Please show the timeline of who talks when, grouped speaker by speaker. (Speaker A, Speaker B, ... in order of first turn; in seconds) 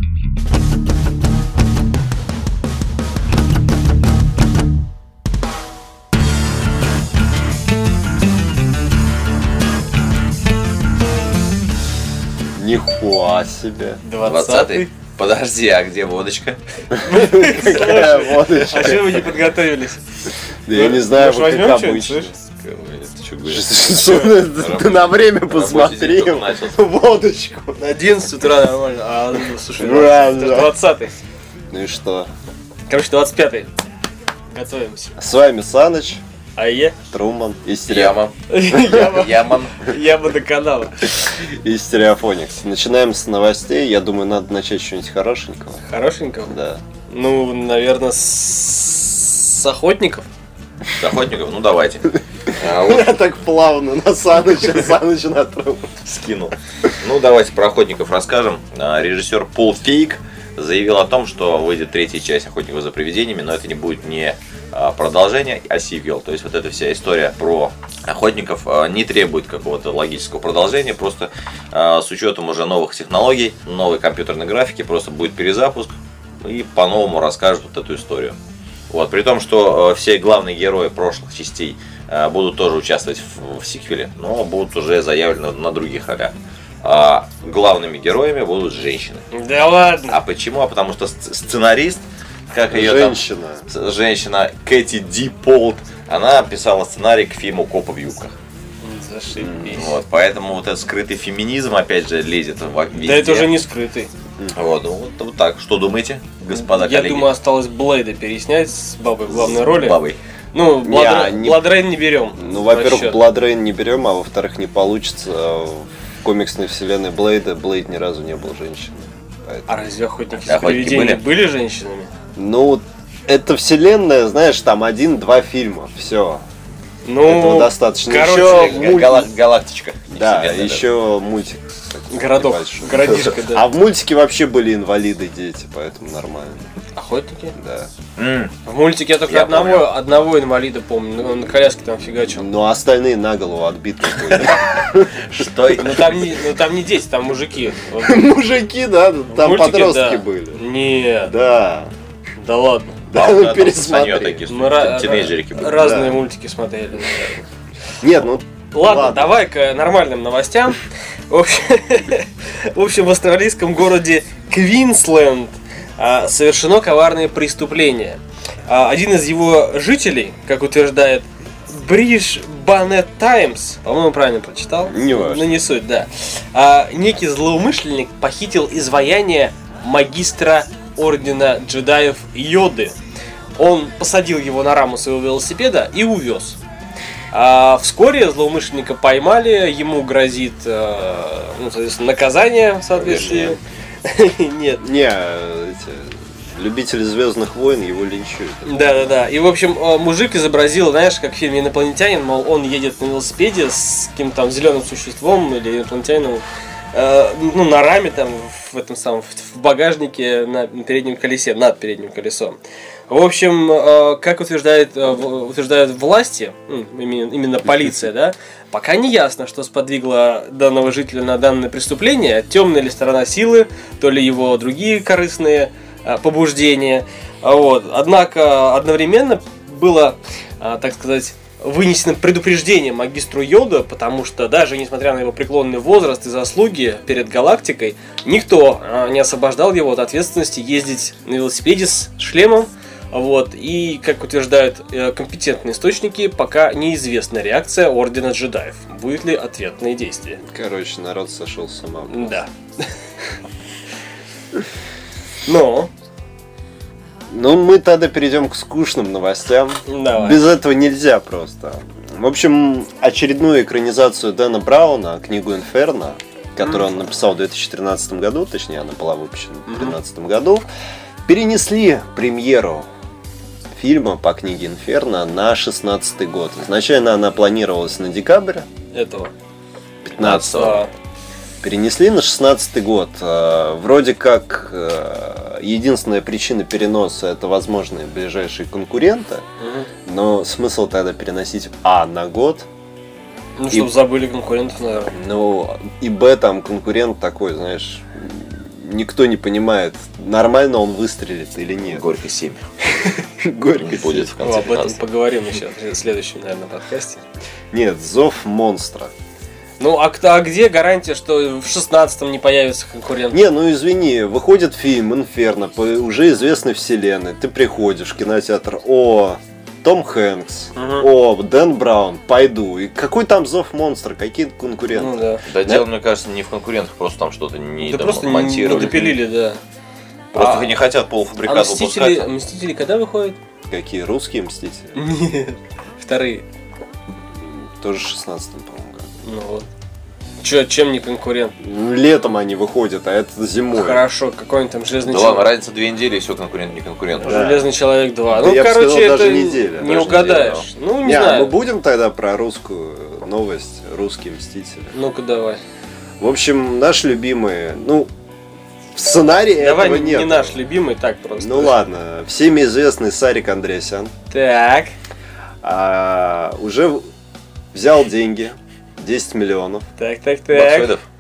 Speaker A: 12.6-14.0, 16.9-19.2, 20.7-22.4, 23.5-27.8, 29.8-30.7, 31.7-32.3, 35.2-36.2, 37.1-38.2, 41.3-45.8, 46.5-46.8, 52.5-55.9, 92.7-93.6, 99.3-99.9, 110.8-111.8, 112.4-119.7, 122.3-126.4, 127.2-129.3, 130.1-136.6, 137.5-137.9, 142.3-145.5, 148.0-150.6, 151.2-151.9, 153.1-154.4, 155.7-156.2, 158.0-159.4, 174.9-175.5, 193.0-193.6, 194.8-198.7, 250.5-252.4, 257.3-270.6, 271.2-272.9, 273.8-278.7, 280.0-280.8, 281.6-289.4, 290.1-292.6, 295.1-302.0, 303.0-304.3, 307.7-309.1, 313.3-325.9, 333.7-334.9, 337.4-339.1, 341.6-344.0, 347.2-347.7, 348.3-354.9, 356.2-358.1, 358.9-360.6, 361.4-364.1, 365.6-367.1, 367.7-369.9
Speaker B: 14.0-14.9, 17.0-20.0, 20.7-22.3, 27.8-31.1, 32.9-33.7, 34.5-35.1, 36.6-37.0, 38.5-41.0, 45.9-46.5, 47.1-50.3, 89.3-90.2, 98.8-99.9, 103.0-104.1, 106.5-110.0, 110.5-113.2, 119.7-122.1, 127.0-129.3, 132.1-133.7, 136.9-137.5, 138.7-142.5, 145.8-148.3, 149.3-151.3, 152.4-152.9, 154.5-157.4, 158.7-182.9, 183.6-186.6, 187.3-194.8, 198.6-212.6, 213.1-250.4, 252.1-252.9, 255.4-255.9, 259.9-260.5, 269.7-269.9, 278.9-279.3, 280.2-280.9, 289.6-289.9, 293.6-295.1, 304.4-307.2, 309.8-313.4, 320.8-321.1, 324.9-325.4, 327.8-329.6, 330.3-330.7, 331.5-333.4, 334.9-336.4, 339.2-339.7, 340.4-341.5, 343.7-345.5, 347.2-351.5, 354.9-355.6, 359.6-361.8, 364.3-364.9, 370.0-370.9
Speaker C: 14.2-16.6, 22.5-26.8, 37.9-39.9, 50.9-53.2, 56.0-78.3, 78.9-89.3, 90.1-98.3, 99.7-103.5, 104.5-107.3, 109.3-110.2, 120.5-121.2, 128.2-130.9, 138.2-138.5, 139.3-139.9, 144.2-144.6, 145.3-146.3, 153.1-156.0, 280.2-280.8, 301.8-302.6, 303.8-305.0, 325.4-329.2, 330.3-332.3, 345.0-347.4, 350.1-350.6, 370.5-371.0